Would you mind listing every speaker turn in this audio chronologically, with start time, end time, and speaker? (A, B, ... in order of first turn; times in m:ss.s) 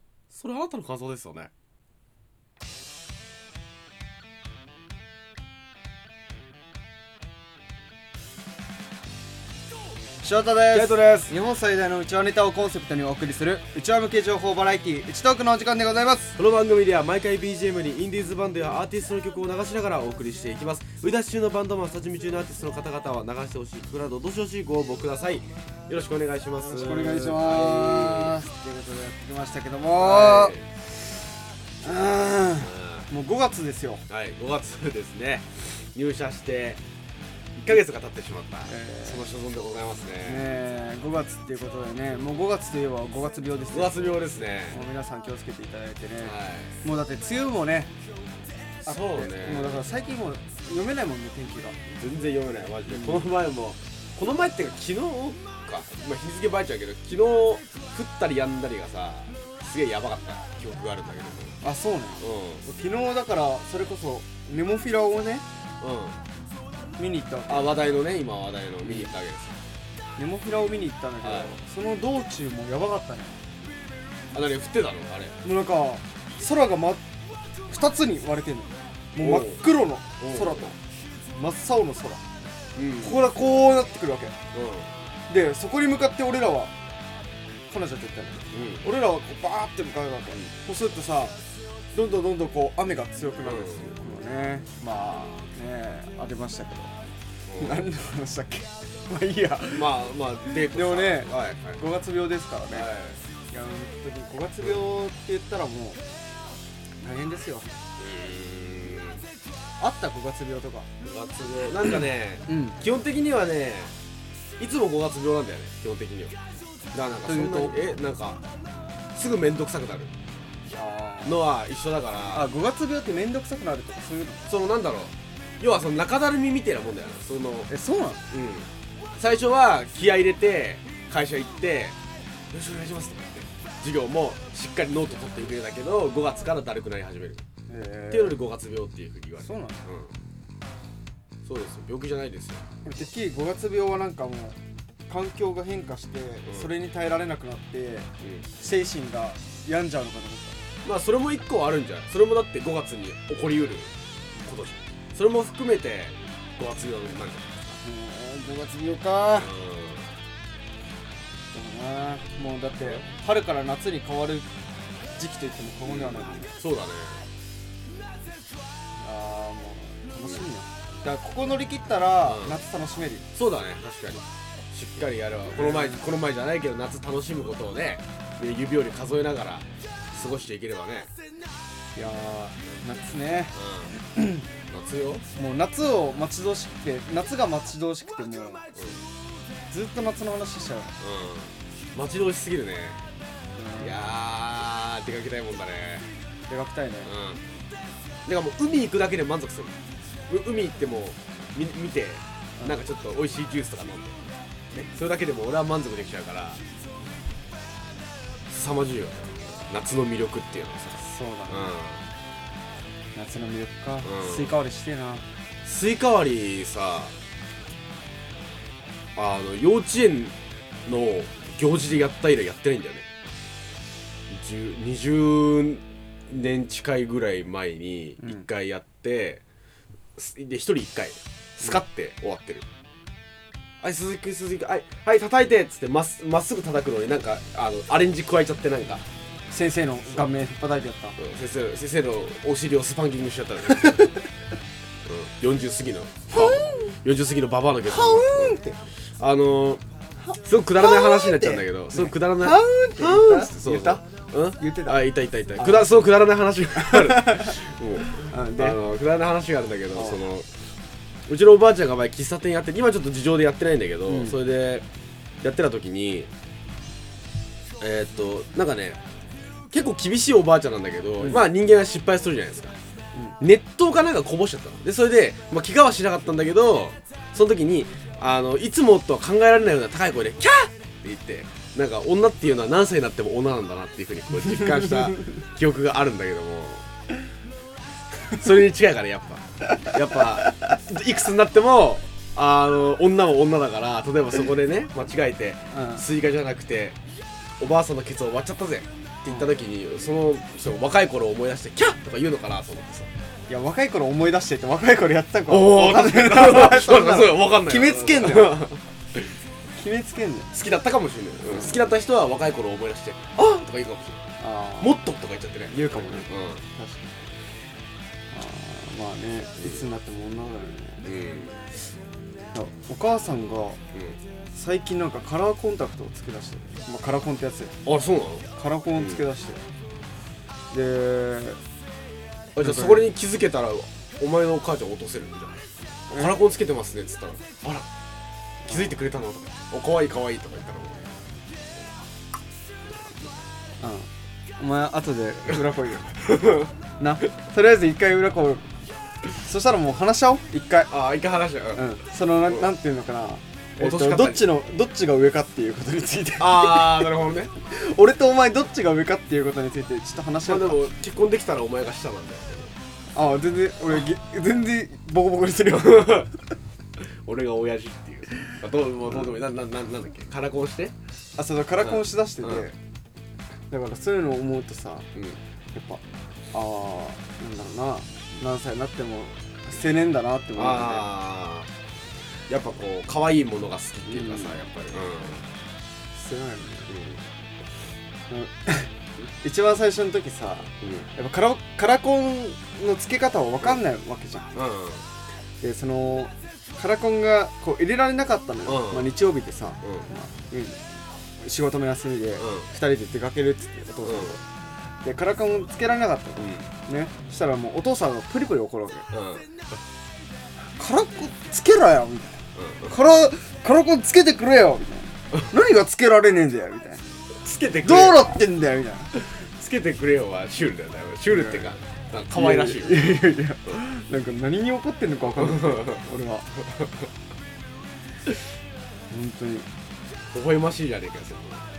0:00.3-0:01.5 A
0:10.2-0:16.4 B
0:10.7-0:11.3 A
0:16.4-0:28.4 A
0:26.6-0:30.6 B
0:29.9-0:30.7 A
0:31.8-0:34.0 B
0:32.6-0:33.1 A
0:34.1-0:36.8 A
0:37.6-0:40.5 A
0:38.6-0:39.3 B
0:40.2-0:47.9 B
0:43.7-0:44.8 A
0:46.2-0:46.8 A
0:48.8-0:49.9 A
0:48.8-0:51.8 B
0:51.9-1:01.6 A
0:52.9-0:53.3 B
1:01.6-1:05.4 B
1:02.2-1:02.6 A
1:05.8-1:06.2 A
1:07.0-1:07.8 B
1:07.5-1:09.6 A
1:08.8-1:09.1 B
1:10.2-1:13.4 B
1:11.2-1:11.5 A
1:14.3-1:15.4 A
1:15.4-1:17.0 B
1:17.7-1:20.8 B
1:19.2-1:19.6 A
1:20.2-1:20.7 A
1:21.4-1:22.2 B
1:22.8-1:23.2 A
1:23.0-1:24.4 B
1:24.5-1:24.9 A
1:25.3-1:26.7 B
1:27.7-1:31.4 B
1:28.5-1:28.8 A
1:31.9-1:36.9 B
1:33.4-1:33.9 A
1:37.5-1:37.9 A
1:37.6-1:40.1 B
1:39.7-1:41.8 A
1:40.7-1:42.9 B
1:42.7-1:43.2 A
1:43.5-1:46.0 B
1:47.0-1:47.7 B
1:48.0-1:49.2 A
1:49.8-1:50.9 B
1:51.0-1:53.9 A
1:52.5-1:52.8 B
1:54.6-1:56.4 A
1:56.9-1:58.4 A
1:57.3-1:57.8 B
1:59.1-2:00.1 A
2:00.7-2:01.4 B
2:01.2-2:02.5 A
2:02.3-2:04.5 B
2:04.5-2:07.7 A
2:07.7-2:08.2 B
2:08.3-2:12.0 A
2:12.5-2:17.4 A
2:17.7-2:18.4 B
2:18.1-2:20.1 A
2:19.4-2:19.8 B
2:21.4-2:22.6 A
2:22.8-2:24.6 B
2:25.1-2:30.6 B
2:26.4-2:26.7 A
2:28.2-2:28.5 A
2:30.8-2:33.9 A
2:34.4-2:37.8 A
2:37.8-2:39.5 B
2:39.4-2:40.1 A
2:41.5-2:44.5 B
2:45.2-2:46.6 B
2:45.8-2:47.3 A
2:49.0-2:53.3 B
2:52.2-2:52.6 A
2:53.3-3:01.1 A
2:55.5-2:56.0 B
3:02.0-3:04.5 B
3:03.5-3:03.9 A
3:04.7-3:05.3 A
3:05.4-3:08.6 B
3:08.8-3:09.0 A
3:09.7-3:11.0 B
3:11.0-3:13.1 A
3:13.5-3:14.0 B
3:13.8-3:16.1 A
3:16.5-3:17.1 B
3:17.0-3:17.4 A
3:18.3-3:19.8 A
3:20.3-3:24.2 A
3:24.7-3:26.6 A
3:28.5-3:32.1 A
3:31.0-3:31.7 B
3:33.2-3:35.3 B
3:34.0-3:34.6 A
3:35.6-3:37.2 A
3:39.2-3:43.1 A
3:44.3-3:49.4 A
3:50.2-3:52.6 A
3:53.8-3:59.0 A
3:59.5-4:01.2 B
4:01.2-4:04.2 A
4:05.0-4:09.8 A
4:06.3-4:06.9 B
4:07.8-4:08.8 B
4:10.2-4:14.0 B
4:10.4-4:20.5 A
4:14.6-4:15.0 B
4:15.6-4:16.0 B
4:16.8-4:17.5 B
4:18.1-4:18.8 B
4:19.9-4:20.2 B
4:21.3-4:24.8 A
4:24.1-4:24.4 B
4:25.4-4:26.3 A
4:27.8-4:29.0 A
4:29.7-4:32.8 A
4:33.4-4:46.9 A
4:48.3-4:57.0 A
4:55.7-4:56.0 B
4:57.6-5:03.1 A
5:03.5-5:08.8 B
5:05.5-5:09.3 A
5:09.8-5:10.5 B
5:10.5-5:14.2 A
5:11.5-5:11.8 B
5:14.4-5:15.0 B
5:14.8-5:16.6 A
5:15.7-5:17.1 B
5:18.3-5:21.1 B
5:21.0-5:21.7 A
5:22.5-5:23.8 B
5:23.9-5:24.2 A
5:24.5-5:27.8 B
5:27.8-5:29.2 A
5:28.5-5:29.6 B
5:30.7-5:31.6 B
5:32.6-5:37.9 A
5:32.6-5:33.1 B
5:36.1-5:36.4 B
5:38.6-5:39.0 B
5:38.6-5:41.2 A
5:42.8-5:43.3 A
5:43.8-5:46.2 B
5:46.2-5:46.7 A
5:47.0-5:48.7 B
5:49.4-5:50.9 B
5:50.9-5:51.9 A
5:51.8-6:00.9 B
5:53.8-5:54.5 A
5:56.4-5:57.5 A
6:00.4-6:02.7 A
6:03.1-6:06.4 B
6:05.7-6:06.3 A
6:07.0-6:11.0 A
6:11.4-6:12.8 B
6:11.8-6:12.6 A
6:13.7-6:15.1 B
6:15.2-6:15.4 A
6:15.8-6:21.1 B
6:20.6-6:21.7 A
6:22.5-6:25.5 A
6:24.1-6:24.6 B
6:26.1-6:26.9 B
6:26.9-6:27.2 A
6:28.3-6:34.5 B
6:30.8-6:31.1 A
6:34.5-6:35.1 A
6:35.6-6:40.8 B
6:38.6-6:39.2 A
6:39.8-6:40.1 A
6:41.4-6:44.4 B
6:42.4-6:42.7 A
6:44.0-6:44.4 A
6:45.0-6:49.1 B
6:46.4-6:46.7 A
6:49.1-6:49.5 A
6:50.8-6:57.0 B
6:52.6-6:52.9 A
6:57.4-6:58.2 A
6:57.8-6:59.1 B
6:59.1-7:03.2 A
7:01.3-7:01.8 B
7:02.3-7:06.5 B
7:05.4-7:06.1 A
7:06.6-7:07.1 A
7:09.1-7:09.7 B
7:10.3-7:11.6 A